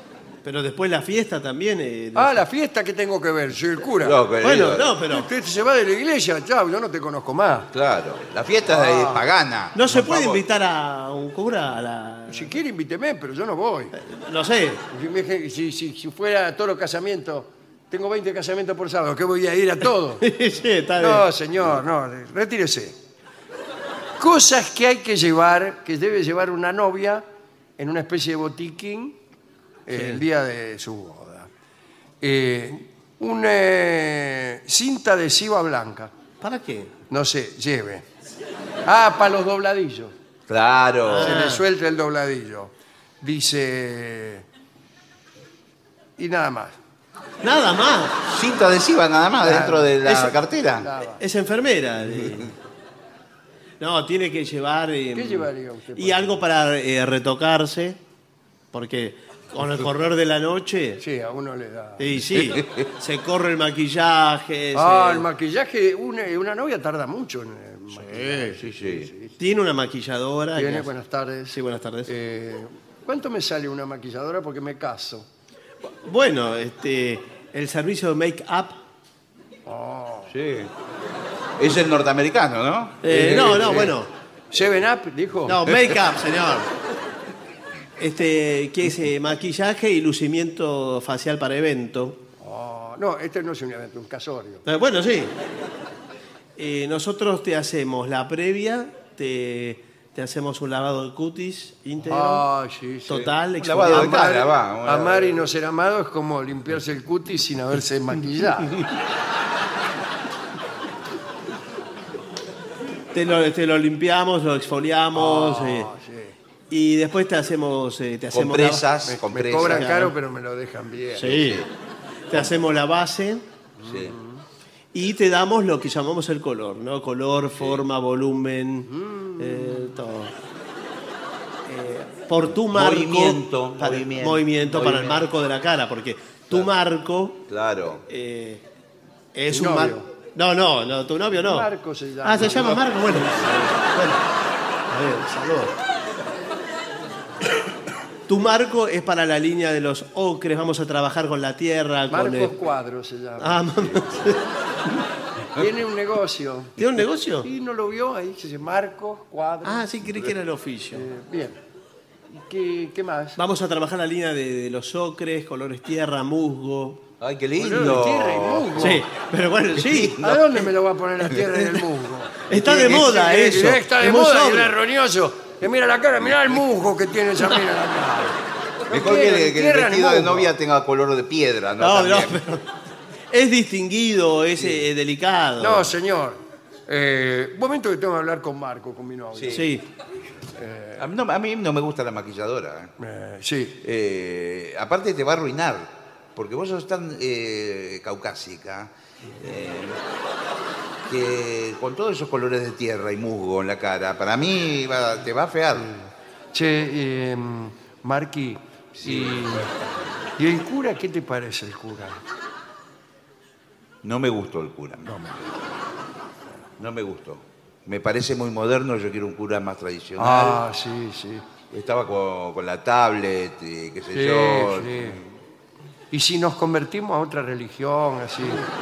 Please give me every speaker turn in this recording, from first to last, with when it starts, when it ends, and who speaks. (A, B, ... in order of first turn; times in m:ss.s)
0:00.4-0:02.4 A
0:02.1-0:04.2 B
0:04.0-0:05.0 C
0:04.4-0:05.3 A
0:05.1-0:07.7 B
0:07.7-0:09.9 C
0:08.7-0:09.2 B
0:09.7-0:12.5 A
0:12.3-0:13.9 B
0:14.0-0:14.8 A
0:14.9-0:20.2 B
0:20.2-0:21.2 A
0:21.0-0:22.9 B
0:24.2-0:27.2 B
0:27.8-0:29.2 B
0:29.9-0:31.5 B
0:29.9-0:30.2 A
0:32.2-0:36.1 B
0:36.4-0:36.9 A
0:37.1-0:38.0 B
0:38.8-0:40.1 B
0:40.5-0:41.4 C
0:41.1-0:41.6 A
0:41.2-0:42.7 B
0:43.2-0:44.4 B
0:46.2-0:46.7 B
0:47.4-0:48.2 A
0:48.2-0:50.9 C
0:49.4-0:49.9 B
0:50.0-0:50.3 A
0:50.8-0:51.2 B
0:51.2-0:52.5 A
0:53.8-0:58.0 A
0:55.1-0:56.4 B
0:58.7-1:01.0 A
1:01.0-1:02.1 B
1:02.0-1:05.2 A
1:02.5-1:02.8 C
1:04.7-1:09.3 B
1:08.4-1:09.1 C
1:09.4-1:10.9 A
1:10.6-1:11.6 B
1:11.5-1:12.1 A
1:12.1-1:15.2 B
1:15.8-1:18.8 A
1:19.7-1:20.3 B
1:20.3-1:20.7 C
1:21.6-1:23.0 C
1:23.0-1:24.1 A
1:23.1-1:24.0 B
1:24.5-1:25.6 B
1:25.5-1:26.7 A
1:28.0-1:32.2 A
1:32.4-1:34.6 B
1:34.6-1:35.3 A
1:36.6-1:42.4 A
1:42.0-1:43.2 B
1:43.1-1:44.2 A
1:43.1-1:45.4 C
1:43.9-1:48.8 B
1:53.1-1:55.9 A
1:55.1-1:56.3 B
1:56.7-1:58.9 A
1:58.3-2:00.0 C
1:59.1-2:01.3 B
1:59.5-2:00.1 A
2:01.1-2:01.7 A
2:01.2-2:01.7 C
2:02.3-2:03.4 A
2:03.8-2:04.4 B
2:03.8-2:04.1 C
2:04.9-2:10.3 A
2:09.1-2:09.6 B
2:11.6-2:17.4 A
2:12.7-2:15.3 C
2:17.5-2:18.0 C
2:18.1-2:18.6 A
2:19.3-2:21.7 A
2:19.5-2:20.1 B
2:21.4-2:23.6 B
2:22.2-2:24.2 A
2:24.9-2:25.7 A
2:28.3-2:32.6 A
2:32.1-2:33.8 B
2:33.4-2:34.4 A
2:35.6-2:36.7 B
2:36.8-2:37.5 A
2:37.4-2:39.9 B
2:39.6-2:41.0 A
2:40.9-2:41.6 B
2:42.3-2:43.4 B
2:43.4-2:47.0 A
2:47.2-2:48.9 C
2:47.6-2:49.0 B
2:48.8-2:50.2 A
2:49.8-2:50.4 C
2:50.2-2:58.4 B
2:52.5-2:54.7 A
2:58.9-3:02.4 C
2:58.9-3:00.5 B
3:01.8-3:02.7 A
3:03.3-3:05.9 A
3:05.6-3:09.6 B
3:09.3-3:09.7 C
3:09.5-3:09.8 A
3:10.6-3:11.0 B
3:11.0-3:12.9 C
3:13.0-3:13.7 B
3:13.8-3:20.0 C
3:21.1-3:25.9 C
3:26.5-3:29.7 B
3:28.9-3:29.8 C
3:30.4-3:32.2 B
3:34.0-3:35.1 C
3:35.1-3:35.4 B
3:36.8-3:40.6 C
3:40.2-3:41.4 B
3:41.7-3:45.3 C
3:44.1-3:45.2 B
3:46.1-3:48.6 B